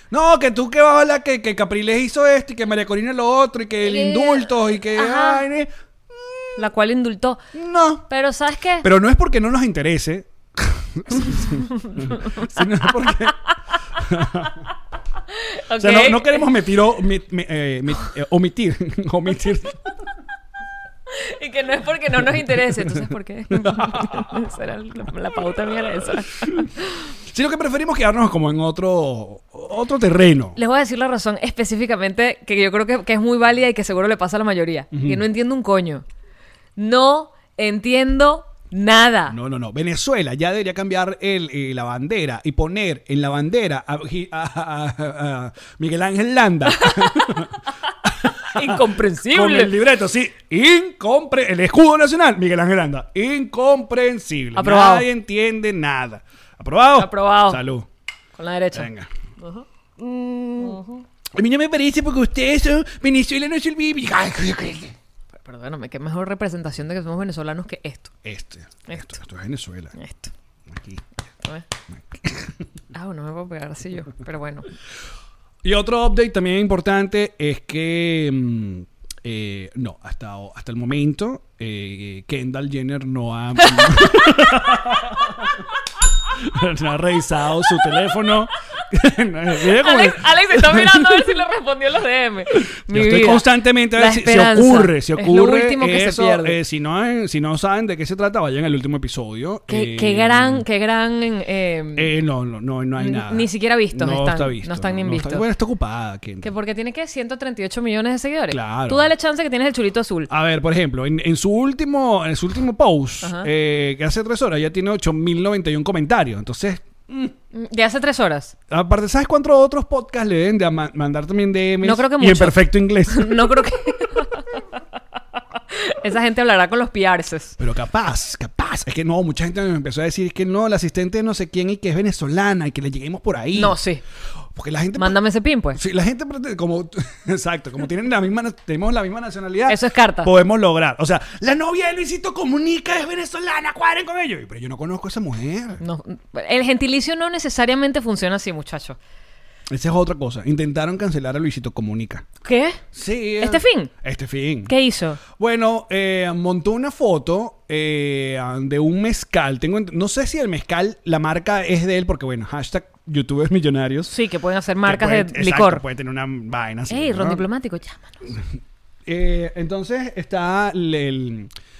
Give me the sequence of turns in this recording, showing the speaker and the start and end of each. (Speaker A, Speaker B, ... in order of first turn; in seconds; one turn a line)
Speaker A: 0.1-6.7
Speaker B: 3.8-5.4
Speaker B: 6.6-7.4
Speaker A: 7.5-8.1
Speaker B: 8.1-8.9
Speaker A: 8.8-13.4
Speaker A: 14.0-14.6
Speaker B: 15.4-16.5
Speaker A: 15.8-19.8
Speaker B: 21.1-26.9
Speaker A: 22.3-24.3
Speaker A: 27.3-30.6
Speaker B: 30.6-36.0
Speaker A: 34.9-35.2
Speaker B: 36.8-39.4
Speaker A: 39.3-57.9
Speaker B: 46.8-47.3
Speaker B: 48.5-49.7
Speaker B: 54.5-55.1
Speaker B: 57.0-57.6
Speaker B: 58.4-58.9
Speaker A: 58.7-59.1
Speaker B: 59.4-61.0
Speaker A: 61.3-65.0
Speaker B: 65.4-68.1
Speaker A: 68.2-70.0
Speaker B: 68.9-69.2
Speaker B: 70.0-70.3
Speaker A: 70.7-71.0
Speaker A: 71.9-72.5
Speaker B: 72.9-74.7
Speaker A: 75.6-85.5
Speaker B: 83.6-84.5
Speaker A: 86.3-91.3
Speaker B: 89.6-96.6
Speaker A: 92.5-100.7
Speaker B: 99.7-102.1
Speaker A: 102.0-106.5
Speaker B: 103.0-105.5
Speaker B: 106.4-110.3
Speaker A: 108.5-109.1
Speaker A: 110.3-117.3
Speaker B: 113.2-113.5
Speaker B: 117.5-118.5
Speaker A: 118.7-123.6
Speaker B: 121.8-124.5
Speaker B: 125.7-127.6
Speaker A: 127.6-133.8
Speaker B: 133.5-134.0
Speaker A: 134.5-135.2
Speaker B: 135.0-135.8
Speaker A: 135.7-145.8
Speaker B: 139.7-140.3
Speaker B: 145.8-149.0
Speaker A: 149.7-152.3
Speaker B: 152.4-152.8
Speaker A: 152.9-154.7
Speaker B: 153.4-153.9
Speaker B: 154.7-155.2
Speaker A: 155.3-164.1
Speaker B: 164.1-165.8
Speaker A: 164.8-167.4
Speaker B: 166.9-168.1
Speaker A: 169.1-171.5